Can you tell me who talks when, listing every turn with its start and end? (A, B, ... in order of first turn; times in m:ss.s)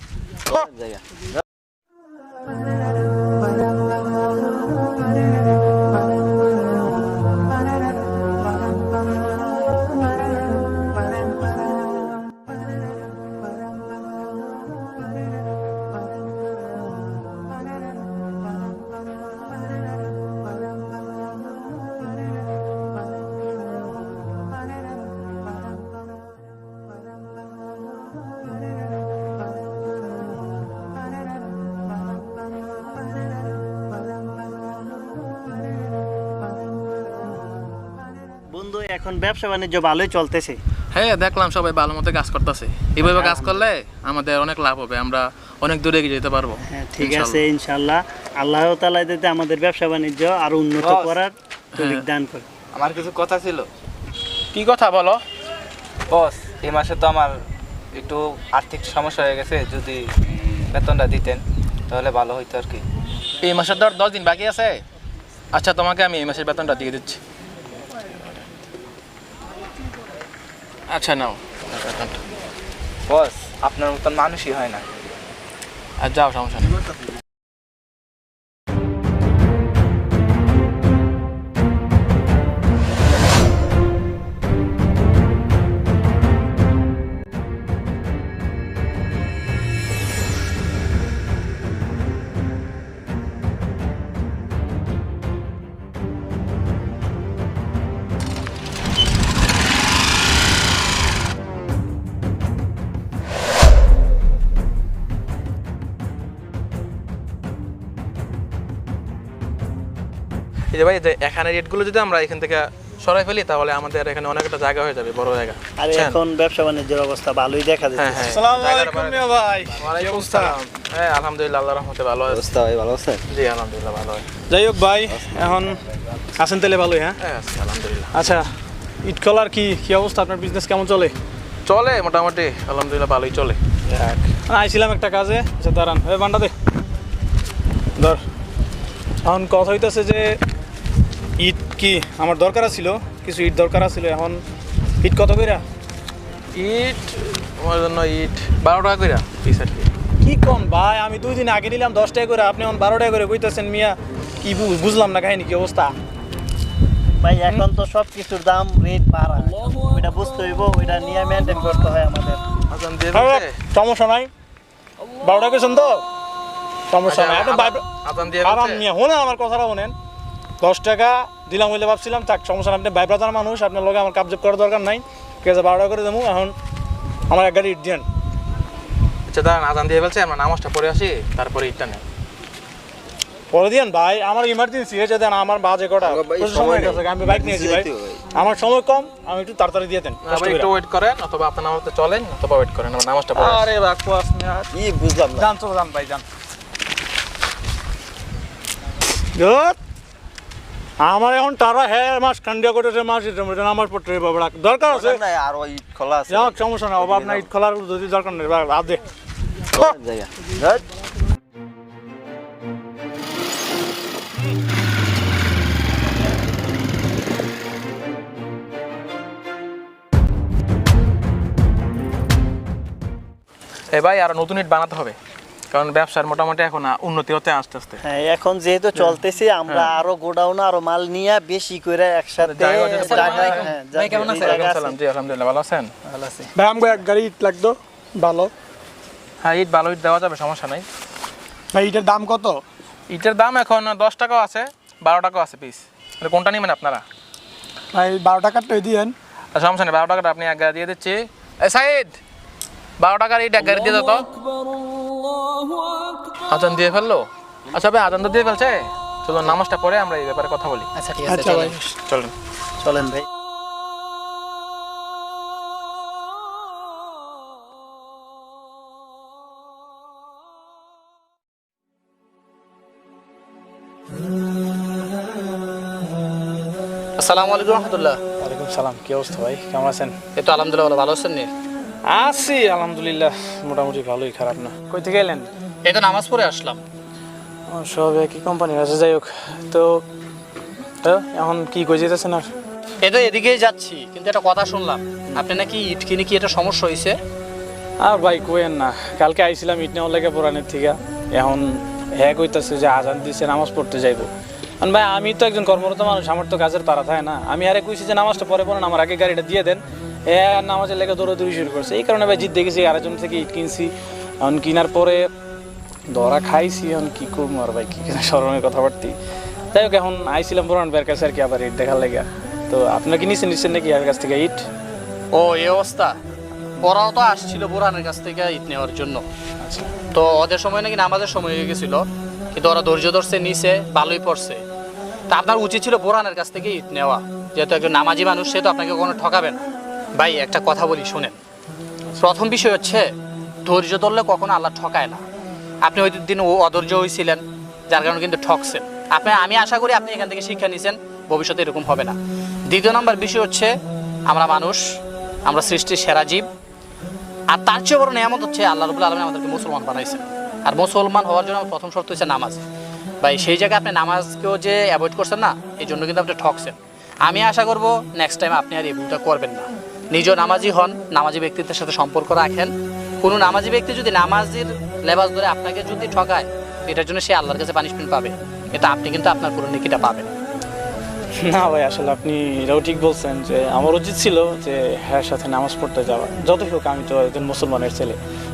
0:00.5-0:01.3 A
0:38.5-0:40.6 B
0:40.9-0:47.4 C
0:43.0-0:43.6 B
0:46.7-0:52.5 B
0:50.8-0:51.1 D
0:51.8-0:52.0 C
0:52.7-0:53.7 D
0:54.5-0:55.2 C
0:56.1-0:57.4 D
0:57.9-1:00.1 D
1:00.7-1:02.8 D
1:03.4-1:04.8 C
1:05.5-1:07.2 C
1:10.9-1:12.2 C
1:13.1-1:14.8 D
1:16.0-1:16.8 C
1:50.7-1:56.2 C
1:55.8-1:58.4 B
1:58.0-1:59.3 C
1:58.2-2:00.6 E
1:59.8-2:02.5 C
2:02.3-2:03.2 A
2:03.3-2:04.3 C
2:04.5-2:05.8 E
2:06.4-2:07.2 E
2:07.2-2:08.3 C
2:08.1-2:08.5 E
2:09.0-2:11.1 E
2:11.7-2:13.6 C
2:13.9-2:16.5 E
2:18.0-2:18.2 E
2:19.2-2:20.4 E
2:21.4-2:24.4 E
2:25.0-2:25.6 E
2:26.5-2:29.9 C
2:30.2-2:36.0 E
2:37.2-2:42.4 B
2:42.7-2:43.5 C
2:43.1-2:44.3 E
2:45.2-2:46.0 E
2:46.9-2:47.8 E
2:47.1-2:48.8 C
2:48.4-2:49.9 E
2:50.6-2:56.5 E
2:57.3-2:58.0 E
2:59.3-3:02.0 C
3:03.5-3:10.7 E
3:06.0-3:08.2 A
3:10.3-3:13.7 C
3:13.4-3:14.7 E
3:14.7-3:15.5 A
3:15.4-3:16.2 E
3:19.4-3:19.8 E
3:21.0-3:25.2 E
3:24.9-3:27.5 A
3:26.3-3:29.0 E
3:29.7-3:30.8 A
3:43.9-3:45.2 C
3:45.7-3:48.0 C
3:48.0-3:55.0 B
3:49.7-3:49.9 C
3:52.4-3:55.9 C
3:53.1-3:54.5 F
3:56.6-3:58.5 E
3:59.4-4:00.9 C
4:01.7-4:02.6 E
4:03.1-4:07.0 C
4:07.9-4:09.1 E
4:09.5-4:12.2 C
4:13.0-4:14.3 C
4:16.5-4:20.9 C
4:21.0-4:21.8 F
4:21.3-4:21.7 E
4:22.1-4:22.3 C
4:22.8-4:23.2 B
4:37.2-4:38.2 F
4:38.4-4:40.2 E
4:40.4-4:41.5 F
4:42.0-4:45.5 E
4:45.8-4:46.8 F
4:47.7-4:50.0 E
4:51.0-4:52.5 E
4:53.0-4:57.2 F
4:58.0-5:04.3 E
5:04.8-5:15.3 E
5:16.1-5:19.2 E
5:19.7-5:24.6 E
5:25.3-5:26.2 F
5:26.8-5:29.2 F
5:29.6-5:29.9 E
5:30.1-5:34.6 F
5:35.3-5:39.6 F
5:40.2-5:41.4 F
5:42.2-5:43.1 F
5:43.7-5:45.2 F
5:45.8-5:52.2 F
5:52.7-5:53.7 F
5:54.3-5:56.5 F
5:57.5-6:02.6 F
6:03.2-6:20.3 F
6:21.4-6:28.2 E